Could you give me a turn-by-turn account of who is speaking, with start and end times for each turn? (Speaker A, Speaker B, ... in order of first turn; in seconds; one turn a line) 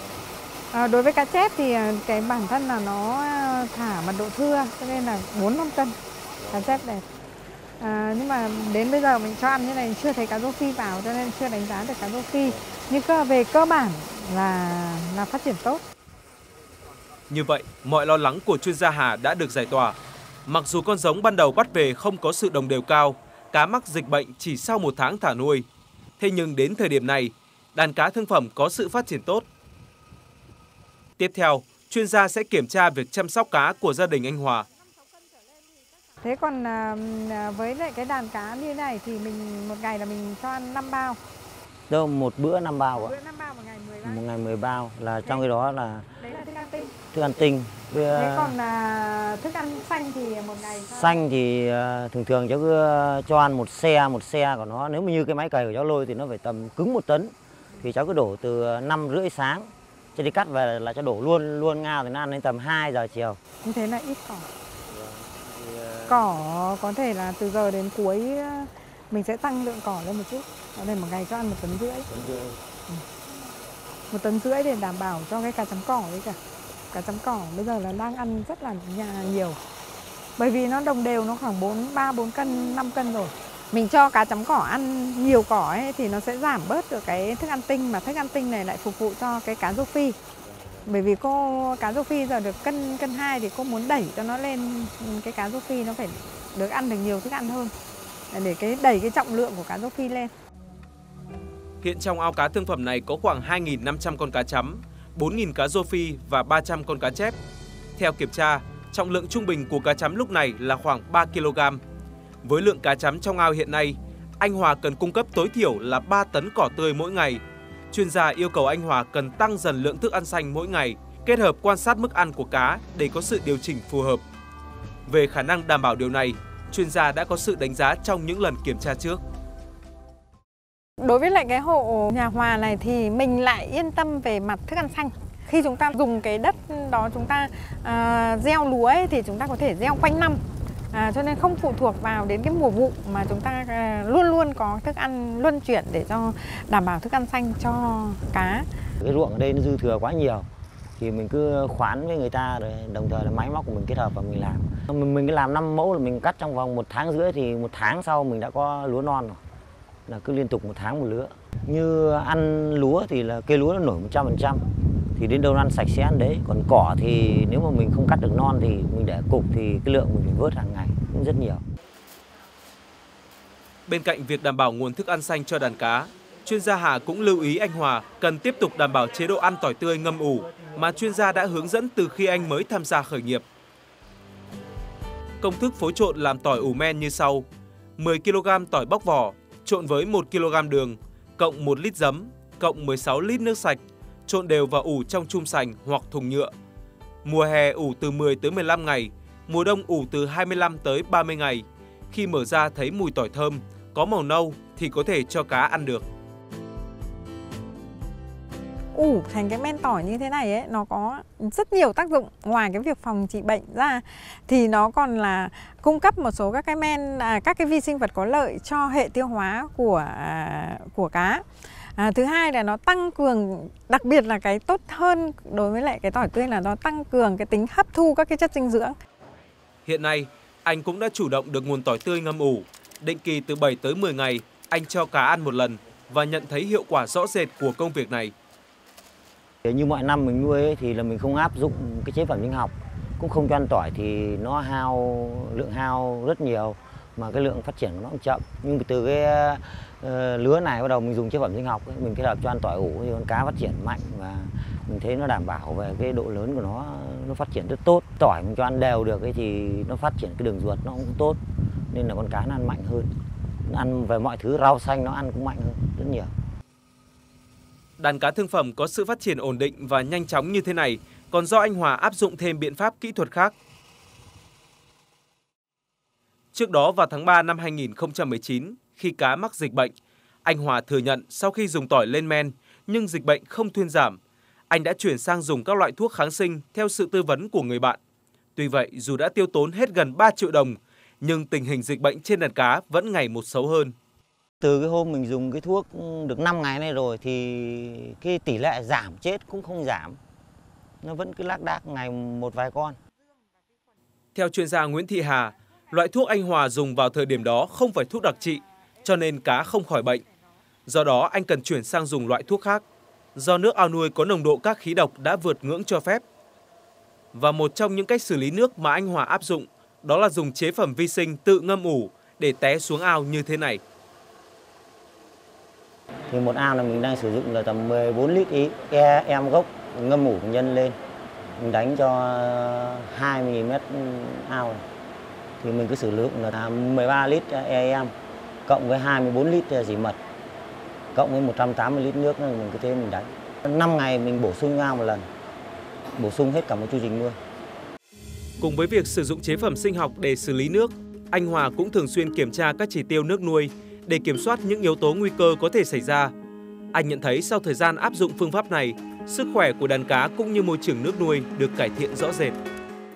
Speaker A: 0.7-7.0
Speaker A: 7.8-15.8
Speaker B: 17.3-25.7
Speaker B: 26.2-29.5
Speaker B: 31.2-34.7
Speaker A: 36.2-41.2
Speaker C: 41.9-43.1
Speaker A: 43.0-44.2
Speaker C: 44.0-46.1
Speaker A: 46.2-47.0
Speaker C: 47.1-48.6
Speaker A: 48.1-51.2
Speaker C: 50.9-63.4
Speaker A: 63.6-64.5
Speaker C: 65.2-66.1
Speaker A: 66.1-72.2
Speaker C: 72.2-72.5
Speaker A: 74.1-76.4
Speaker A: 76.9-79.6
Speaker A: 80.4-90.2
Speaker A: 90.8-97.7
Speaker A: 98.3-100.3
Speaker B: 101.8-107.4
Speaker B: 108.0-111.8
Speaker B: 112.4-124.2
Speaker B: 125.1-129.2
Speaker A: 131.0-148.7
Speaker C: 149.0-150.5
Speaker C: 151.0-159.4
Speaker C: 160.1-171.6
Speaker B: 173.9-183.4
Speaker B: 185.4-187.5
Speaker B: 188.0-196.5
Speaker B: 197.2-206.1
Speaker A: 208.9-229.0
Speaker B: 229.8-238.3
Speaker C: 239.6-261.4
Speaker C: 261.9-263.1
Speaker C: 263.7-266.3
Speaker B: 268.0-273.5
Speaker B: 276.5-279.9
Speaker B: 280.4-284.2
Speaker B: 284.7-288.0
Speaker B: 288.6-293.9
Speaker C: 294.6-300.2
Speaker C: 301.0-303.0
Speaker B: 304.4-310.2
Speaker B: 310.9-312.8
Speaker B: 313.4-316.2
Speaker B: 317.3-323.8
Speaker C: 326.3-331.0
Speaker C: 331.6-334.9
Speaker C: 335.6-338.1
Speaker C: 338.7-340.2
Speaker C: 341.1-345.2
Speaker C: 346.2-347.4
Speaker B: 348.6-356.3
Speaker B: 356.9-362.6